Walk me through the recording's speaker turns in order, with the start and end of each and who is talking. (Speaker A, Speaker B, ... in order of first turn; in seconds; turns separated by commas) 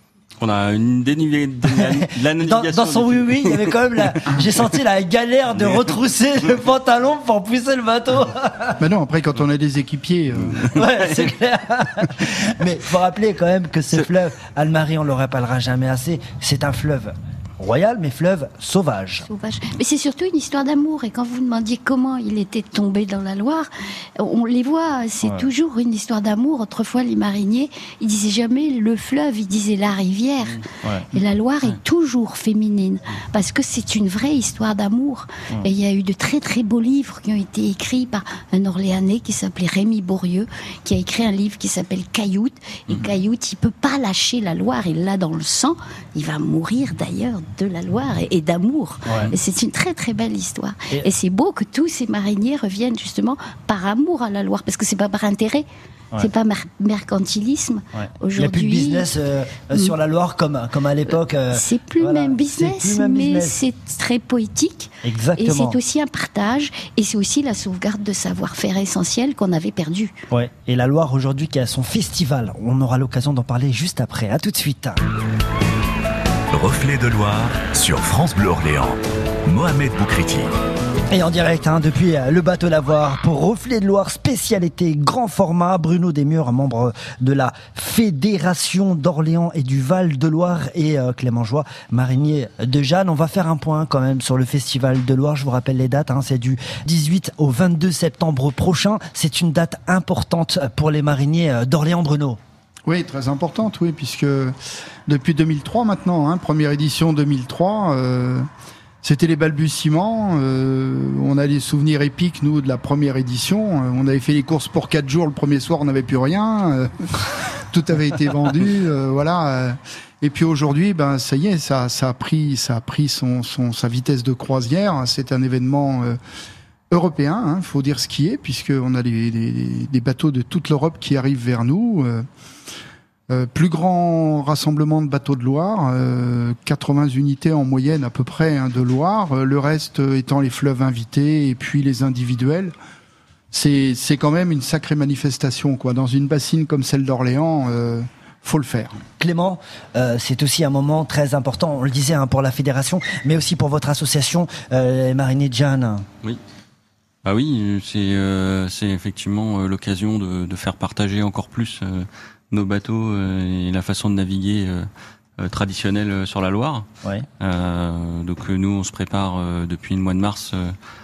Speaker A: 0.4-4.7, Speaker B: 1.8-8.8, Speaker A: 5.5-5.9, Speaker C: 8.8-10.6, Speaker A: 10.4-11.3, Speaker B: 10.7-19.3, Speaker D: 19.2-59.1, Speaker B: 25.2-25.5, Speaker B: 30.8-31.1, Speaker B: 49.0-49.4, Speaker B: 57.9-63.6, Speaker D: 61.5-70.1, Speaker B: 65.0-65.8, Speaker B: 70.3-75.0, Speaker E: 76.5-80.5, Speaker B: 81.1-102.4, Speaker C: 102.8-104.5, Speaker C: 105.1-108.5, Speaker C: 109.0-126.2, Speaker C: 126.9-132.2, Speaker C: 133.3-142.7, Speaker C: 143.5-149.0, Speaker B: 149.2-156.1, Speaker A: 157.2-164.9, Speaker A: 165.4-166.8, Speaker A: 167.4-170.8